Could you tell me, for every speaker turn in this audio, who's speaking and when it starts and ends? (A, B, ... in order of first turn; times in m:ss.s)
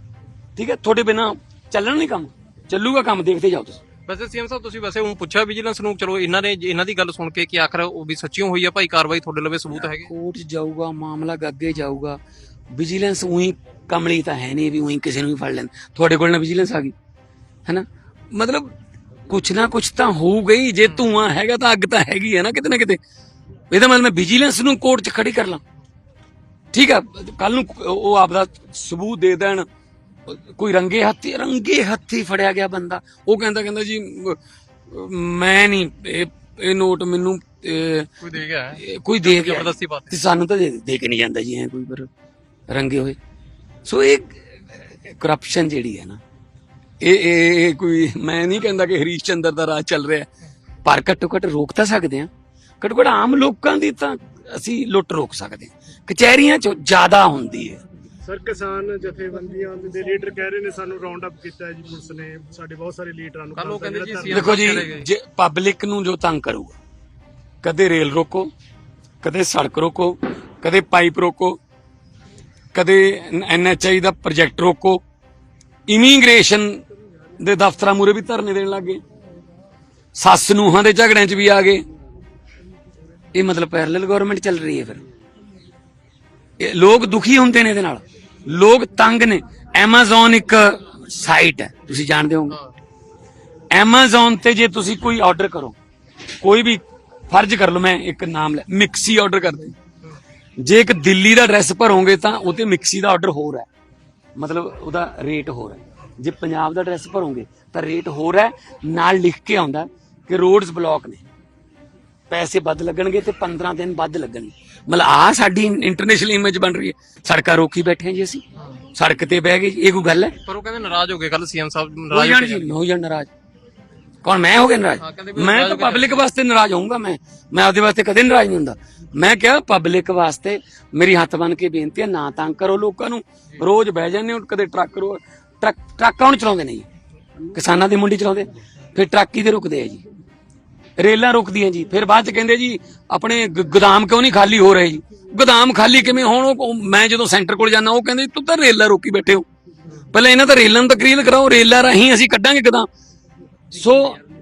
0:00.6-0:03.8 A
0:04.1-0:10.1 B
0:09.7-0:12.2 A
0:12.7-0:16.9 A
0:17.7-0:18.7 A
0:19.3-0:23.0 A
0:23.7-0:25.6 A
0:26.7-0:29.7 A
0:30.3-0:34.4 A
0:34.9-0:38.2 A
0:38.2-0:40.1 B
0:38.8-0:42.1 A
0:42.7-0:43.2 A
0:43.8-0:46.2 A
0:47.0-0:50.3 A
0:50.8-0:52.3 A
0:52.8-0:57.8 A
0:58.2-1:04.6 C
1:03.6-1:05.1 B
1:04.3-1:06.8 A
1:07.6-1:08.5 A
1:09.2-1:11.6 A
1:12.7-1:15.0 A
1:15.9-1:16.8 A
1:17.4-1:19.0 A
1:20.2-1:21.8 A
1:23.3-1:25.0 A
1:26.6-1:32.6 A
1:33.7-1:35.8 A
1:36.4-1:39.8 A
1:40.6-1:43.7 A
1:44.4-1:51.2 A
1:52.3-1:58.4 A
1:58.9-2:00.4 A
2:00.5-2:02.7 B
2:02.1-2:03.3 A
2:04.2-2:16.9 A
2:05.0-2:06.2 B
2:17.5-2:20.0 A
2:21.0-2:29.5 A
2:30.1-2:32.9 A
2:33.7-2:34.2 A